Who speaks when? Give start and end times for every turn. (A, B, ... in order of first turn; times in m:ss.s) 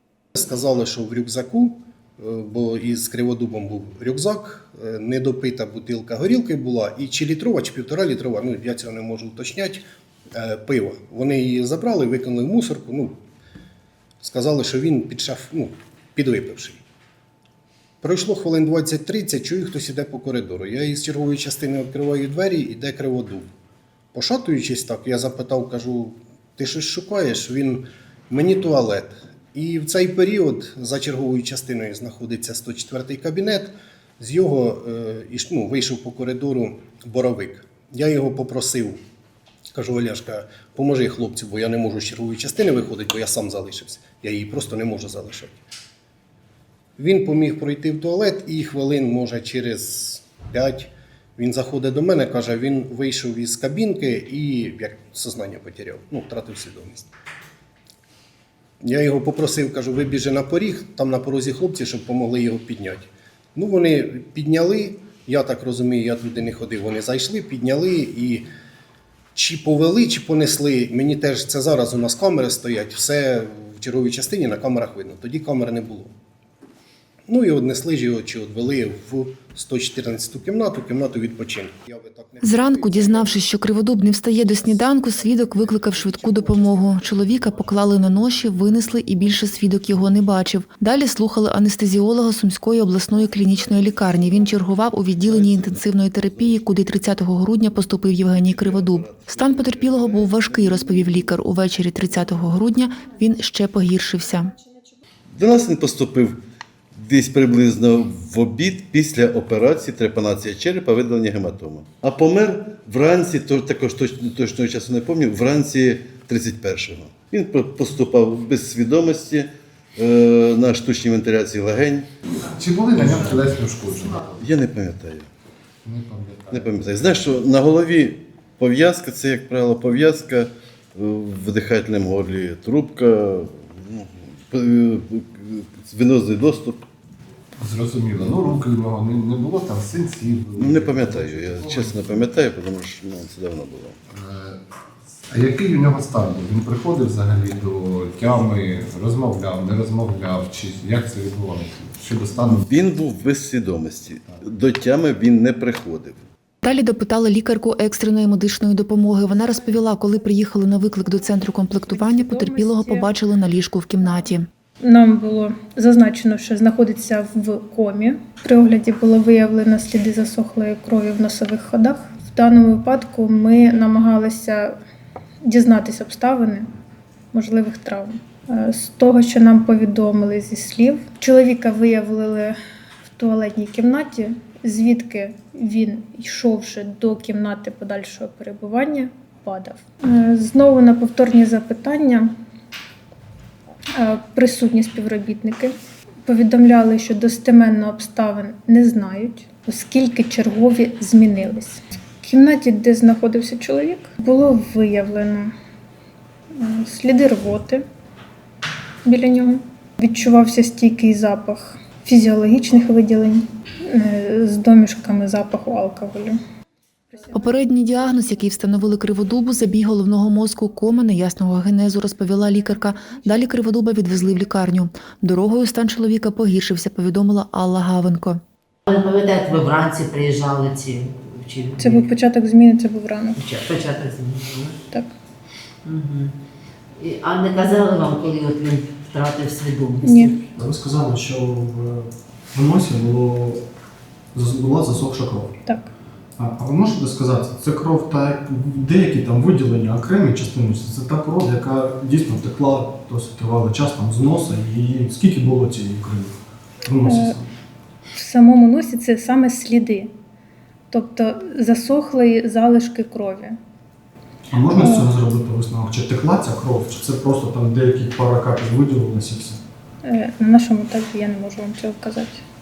0:00.4-0:09.8 A
0:10.4-0:13.2 A
0:14.2-0:16.8 A
0:18.0-0:23.5 A
0:24.1-0:39.0 A
0:39.7-0:45.6 A
0:47.0-0:57.1 A
0:58.8-1:08.5 A
1:09.4-1:16.1 A
1:17.3-1:23.6 A
1:22.4-1:44.6 B
1:24.4-1:29.9 A
1:35.2-1:37.0 C
1:38.3-1:41.4 C
1:45.4-1:46.4 C
1:47.0-2:02.1 C
2:02.4-2:04.4 D
2:03.0-2:03.4 C
2:04.3-2:05.3 C
2:05.8-2:07.0 D
2:06.5-2:16.9 C
2:17.6-2:22.2 D
2:20.6-2:24.0 C
2:24.1-2:24.6 D
2:25.3-2:32.7 D
2:32.5-2:36.2 C
2:36.6-2:44.5 B
2:41.9-2:43.1 E
2:44.8-2:54.8 E
2:55.4-2:56.7 E
2:57.3-3:02.6 E
3:03.1-3:12.3 E
3:14.0-3:25.5 E
3:26.5-3:27.8 E
3:29.0-3:36.4 E
3:37.3-3:48.4 B
3:48.9-3:52.0 F
3:51.8-3:53.4 E
3:53.4-3:54.8 F
3:55.8-3:56.3 F
3:57.0-4:00.4 F
4:00.0-4:00.4 E
4:00.6-4:03.6 G
4:04.3-4:05.5 G
4:05.6-4:05.9 E
4:06.4-4:16.3 G
4:16.8-4:17.5 G
4:17.0-4:17.4 E
4:18.1-4:20.1 E
4:20.9-4:23.6 E
4:24.5-4:29.6 G
4:24.8-4:25.1 E
4:30.0-4:32.4 E